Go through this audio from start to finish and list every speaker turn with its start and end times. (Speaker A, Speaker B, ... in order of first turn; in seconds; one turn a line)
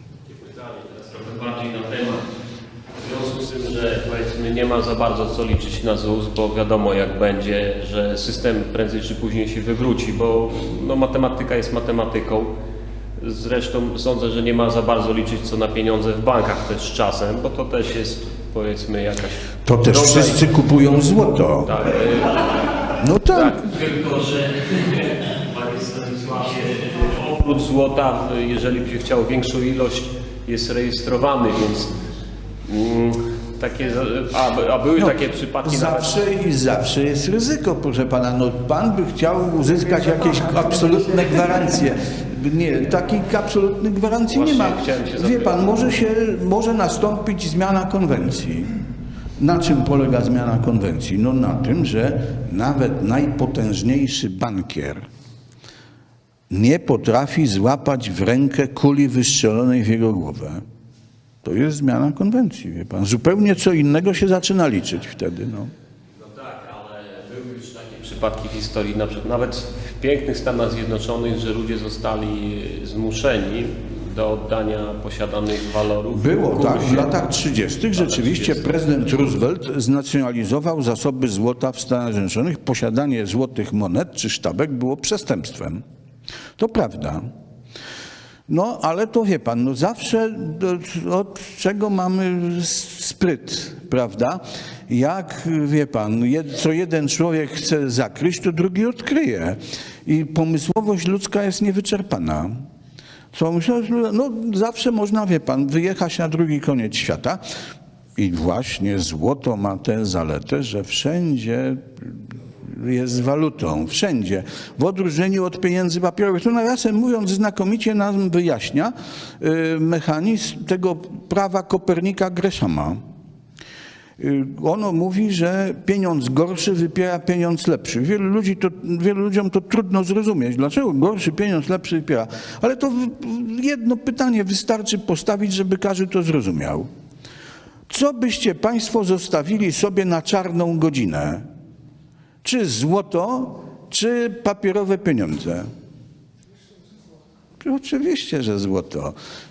Speaker A: 0.3-2.2
Speaker A: 2.9-12.5
Speaker A: 13.2-20.5
Speaker B: 19.6-21.7
Speaker A: 21.6-31.9
Speaker B: 23.0-23.6
Speaker A: 32.6-36.2
Speaker B: 35.0-48.8
Speaker A: 44.3-45.8
Speaker B: 49.4-55.1
Speaker B: 56.5-60.6
Speaker B: 61.4-65.7
Speaker A: 66.2-77.2
Speaker B: 76.1-85.8
Speaker A: 77.9-78.7
Speaker B: 86.6-87.3
Speaker B: 88.5-102.7
Speaker B: 103.3-107.4
Speaker B: 108.2-123.0
Speaker B: 124.2-136.9
Speaker B: 137.9-141.5
Speaker B: 142.4-145.7
Speaker B: 147.6-149.2